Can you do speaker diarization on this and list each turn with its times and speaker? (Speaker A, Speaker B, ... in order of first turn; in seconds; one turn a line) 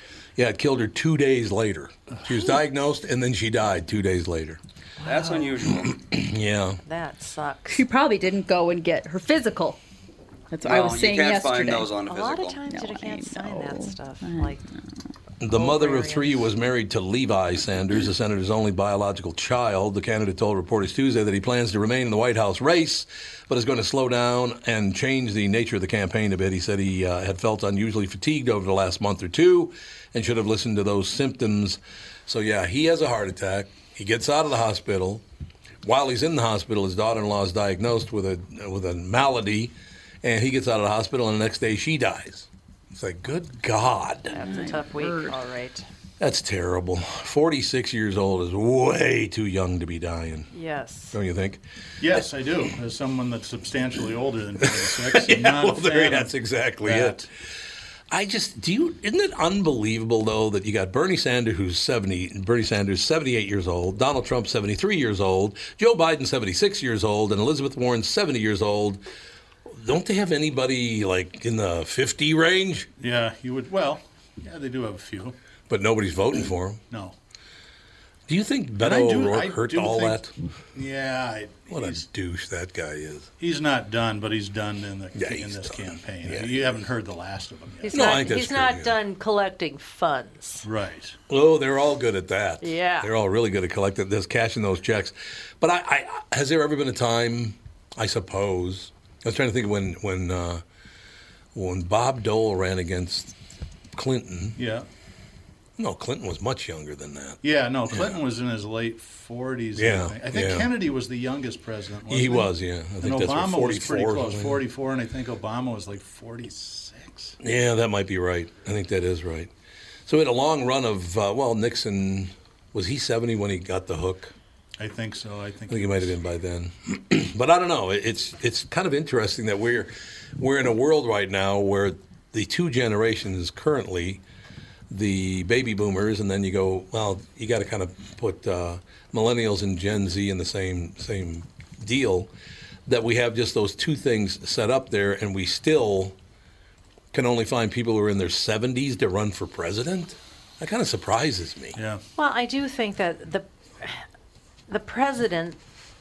Speaker A: 0.4-4.6
Speaker B: 5.0-5.7
Speaker C: 5.0-5.9
Speaker A: 5.8-6.8
Speaker B: 6.8-7.8
Speaker D: 7.7-9.8
Speaker D: 10.5-11.9
Speaker C: 10.6-12.6
Speaker B: 12.1-14.6
Speaker D: 12.7-14.8
Speaker A: 15.4-35.2
Speaker B: 15.5-16.5
Speaker A: 35.8-44.3
Speaker B: 44.3-45.9
Speaker D: 44.3-45.4
Speaker A: 46.2-50.5
Speaker B: 50.5-51.1
Speaker A: 51.1-51.6
Speaker E: 52.0-57.3
Speaker A: 54.6-57.2
Speaker A: 58.1-69.0
Speaker A: 69.7-72.9
Speaker E: 73.0-75.3
Speaker A: 75.7-76.8
Speaker E: 76.9-77.1
Speaker A: 78.3-80.3
Speaker E: 78.8-80.2
Speaker E: 80.7-82.0
Speaker A: 81.7-83.3
Speaker E: 83.4-88.1
Speaker A: 85.1-86.6
Speaker B: 87.8-90.7
Speaker A: 87.9-89.0
Speaker E: 90.6-91.1
Speaker A: 91.3-100.6
Speaker B: 92.6-93.1
Speaker A: 101.5-103.3
Speaker A: 103.9-104.6
Speaker E: 104.5-104.9
Speaker A: 105.8-107.4
Speaker E: 107.4-117.3
Speaker A: 109.8-110.7
Speaker A: 112.1-114.6
Speaker A: 117.4-119.5
Speaker A: 120.1-124.3
Speaker E: 124.8-126.1
Speaker A: 125.7-134.2
Speaker A: 134.9-142.3
Speaker A: 142.9-146.1
Speaker A: 147.1-151.8
Speaker E: 151.7-152.0
Speaker B: 152.2-154.0
Speaker B: 154.7-155.6